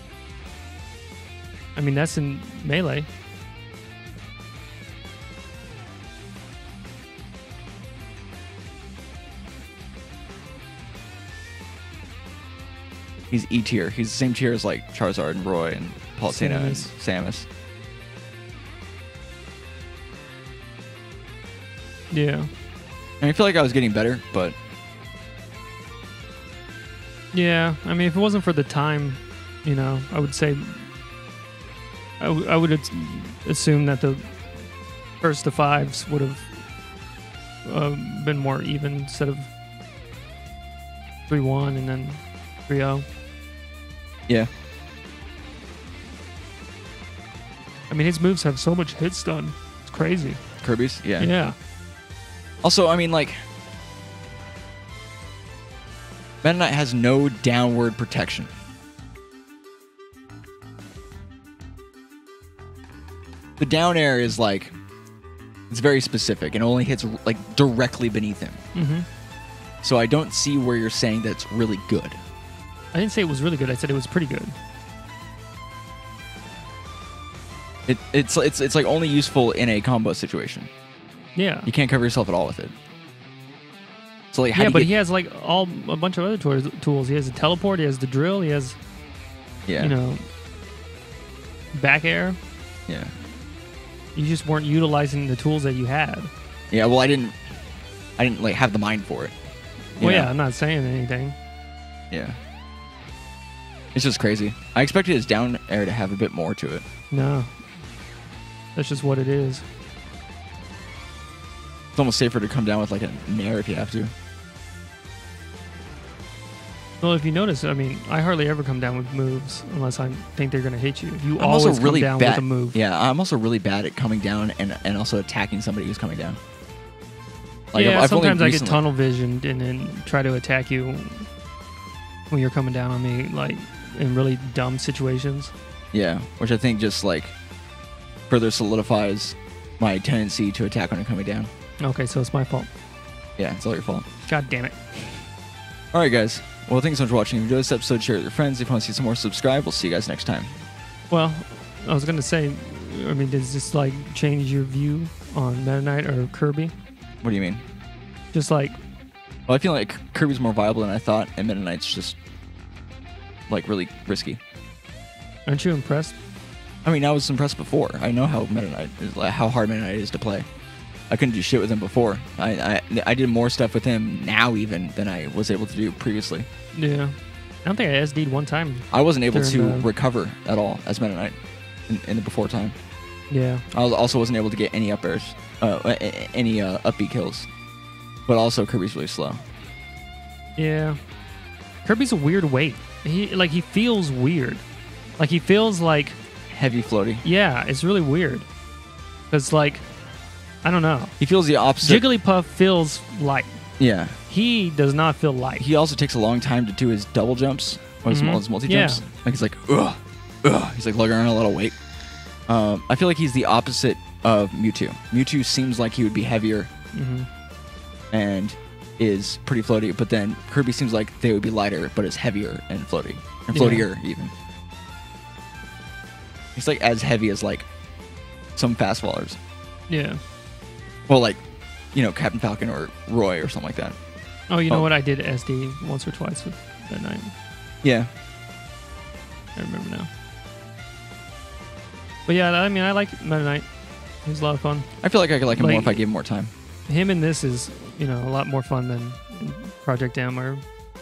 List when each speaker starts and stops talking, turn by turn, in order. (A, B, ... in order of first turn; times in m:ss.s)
0:01.8-0:03.1 A
0:13.3-0:17.5 B
0:16.3-0:16.9 A
0:22.1-0:22.5 A
0:23.2-0:24.6 B
0:27.3-0:30.9 A
0:32.2-0:34.4 A
0:35.2-0:36.5 A
0:37.6-0:39.5 A
0:41.3-0:43.1 A
0:47.9-0:50.4 A
0:50.6-0:51.3 B
0:51.2-0:51.6 A
0:52.6-0:53.4 B
0:56.4-0:58.5 B
1:03.6-1:04.7 B
1:05.7-1:08.6 B
1:08.7-1:09.1 A
1:09.8-1:12.2 B
1:12.9-1:14.6 A
1:17.9-1:20.7 B
1:21.4-1:21.7 A
1:21.7-1:22.7 B
1:24.3-1:24.9 B
1:24.5-1:28.8 A
1:29.7-1:29.9 B
1:29.8-1:30.2 A
1:31.7-1:32.4 A
1:32.9-1:33.1 B
1:34.2-1:36.3 A
1:36.7-1:37.4 B
1:38.2-1:39.4 B
1:40.0-1:41.4 A
1:40.0-1:40.3 B
1:42.1-1:42.4 B
1:43.9-1:46.8 B
1:47.1-1:47.6 A
1:48.8-1:49.6 A
1:52.0-1:54.1 B
1:57.0-2:02.8 A
2:01.4-2:06.4 B
2:07.7-2:08.8 B
2:07.7-2:11.3 A
2:12.3-2:15.5 A
2:15.9-2:17.4 B
2:18.3-2:21.5 B
2:21.8-2:22.7 A
2:23.4-2:24.1 B
2:24.3-2:24.8 A
2:25.9-2:30.6 B
2:31.1-2:36.7 A
2:37.2-2:37.6 B
2:38.3-2:38.8 A
2:39.5-2:42.2 B
2:43.5-2:44.4 B
2:45.5-2:46.2 A
2:46.8-2:50.5 B
2:51.1-2:56.5 B
2:56.7-2:59.9 A
2:58.9-3:01.4 B
3:01.9-3:02.8 B
3:03.3-3:03.6 A
3:03.7-3:07.5 B
3:08.3-3:09.4 B
3:10.6-3:11.0 A
3:11.8-3:14.6 A
3:15.2-3:16.2 A
3:16.5-3:17.2 B
3:17.2-3:18.5 A
3:19.3-3:19.8 A
3:20.6-3:21.2 A
3:21.2-3:22.0 B
3:21.8-3:23.6 A
3:23.8-3:24.2 B
3:24.3-3:25.7 A
3:25.6-3:31.8 B
3:28.1-3:29.0 A
3:32.5-3:36.7 B
3:36.9-3:37.3 A
3:38.1-3:44.3 B
3:43.5-3:43.9 A
3:46.6-3:47.7 B
3:48.6-3:49.4 B
3:49.9-3:50.2 A
3:51.1-3:51.4 B
3:51.9-3:54.0 B
3:54.5-3:57.3 A
3:57.8-3:58.1 B
3:59.6-4:00.1 A
4:02.3-4:03.7 A
4:04.2-4:06.0 A
4:05.0-4:06.5 B
4:06.9-4:10.6 A